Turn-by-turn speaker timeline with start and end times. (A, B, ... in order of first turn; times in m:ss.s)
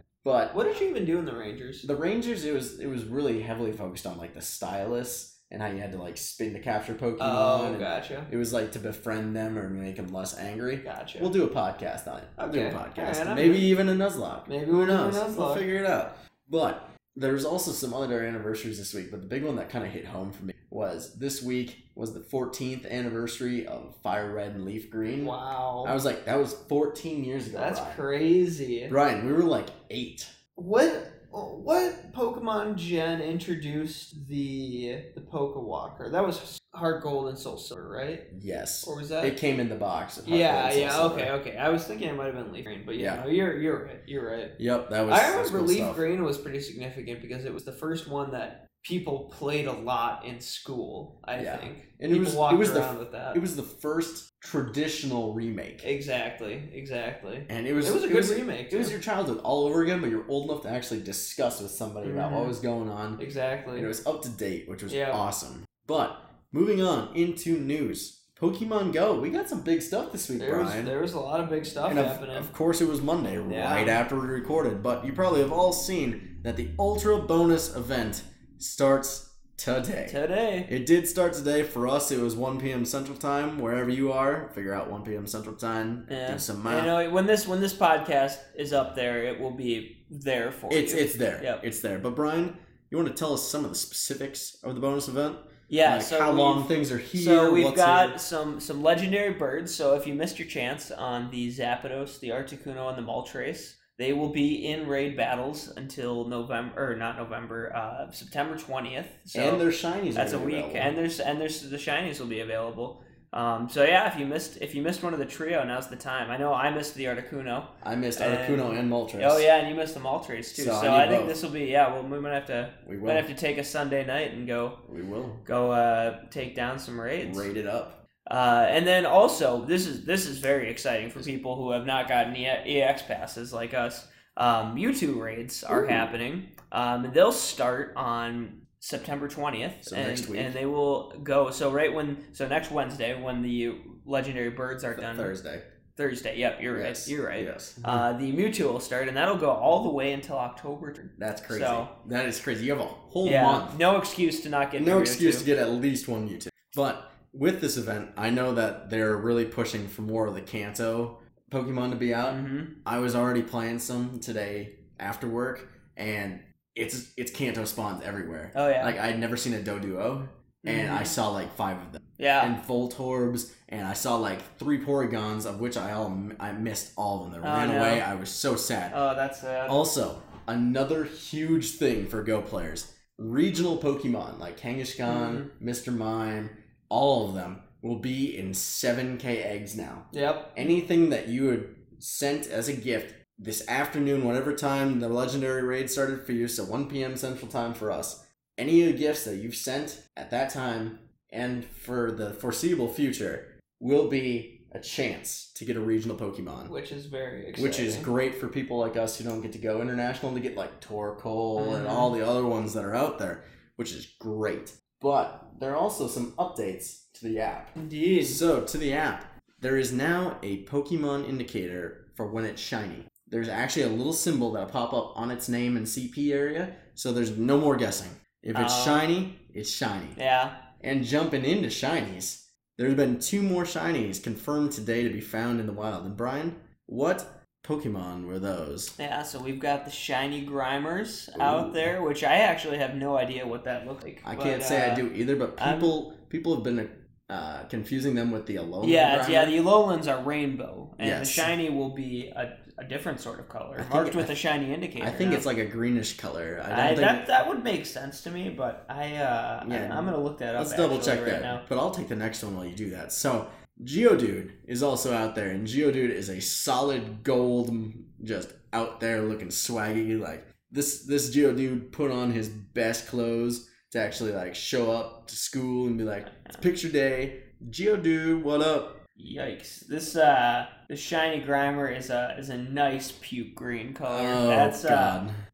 0:00.2-0:00.7 A
0:00.5-0:01.9 B
0:01.8-0:28.0 A
0:07.2-0:08.3 B
0:10.8-0:11.3 B
0:12.4-0:13.7 B
0:14.5-0:15.7 B
0:25.2-0:26.0 B
0:27.5-0:29.0 B
0:28.9-0:30.3 A
0:30.6-0:38.3 B
0:38.3-0:41.3 A
0:38.8-0:39.4 B
0:40.2-0:53.4 B
0:43.0-0:43.2 A
0:44.6-0:46.0 A
0:51.4-0:55.9 A
0:55.8-0:59.0 B
0:57.5-1:03.2 A
1:02.0-1:02.6 B
1:03.2-1:03.9 B
1:03.8-1:10.9 A
1:04.9-1:05.2 B
1:10.4-1:12.5 B
1:11.9-1:26.9 A
1:13.5-1:14.0 B
1:20.1-1:20.7 B
1:26.1-1:31.6 B
1:30.7-1:38.2 A
1:35.7-2:04.9 B
1:49.3-1:51.0 A
1:57.8-1:59.5 A
2:00.5-2:01.4 A
2:02.8-2:03.3 A
2:04.9-2:05.5 A
2:05.4-2:07.5 B
2:07.2-2:08.0 A
2:08.3-2:25.4 B
2:15.7-2:16.1 A
2:19.8-2:20.6 A
2:25.0-2:25.7 A
2:26.0-2:31.9 B
2:26.7-2:28.1 A
2:31.2-2:33.8 A
2:33.2-2:35.5 B
2:34.8-2:59.0 A
2:42.2-2:42.8 B
2:48.5-2:49.0 B
2:50.6-2:51.2 B
2:52.2-2:52.5 B
2:57.4-2:58.1 B
2:58.9-2:59.8 B
2:59.7-3:26.7 A
3:05.0-3:05.5 B
3:10.1-3:10.7 B
3:26.7-3:28.1 B
3:27.6-3:50.2 A
3:31.6-3:32.2 B
3:37.8-3:38.4 B
3:48.5-3:49.1 B
3:50.2-3:50.7 B
3:50.8-3:59.0 A
3:59.0-4:05.1 B
4:01.4-4:01.9 A
4:04.2-4:09.6 A
4:05.6-4:06.0 B
4:08.8-4:15.5 B
4:11.0-4:11.5 A
4:13.8-4:14.4 A
4:15.0-4:17.3 A
4:16.7-4:21.6 B
4:19.6-4:39.0 A
4:36.2-4:36.6 B
4:39.2-4:45.2 B
4:44.1-4:45.4 A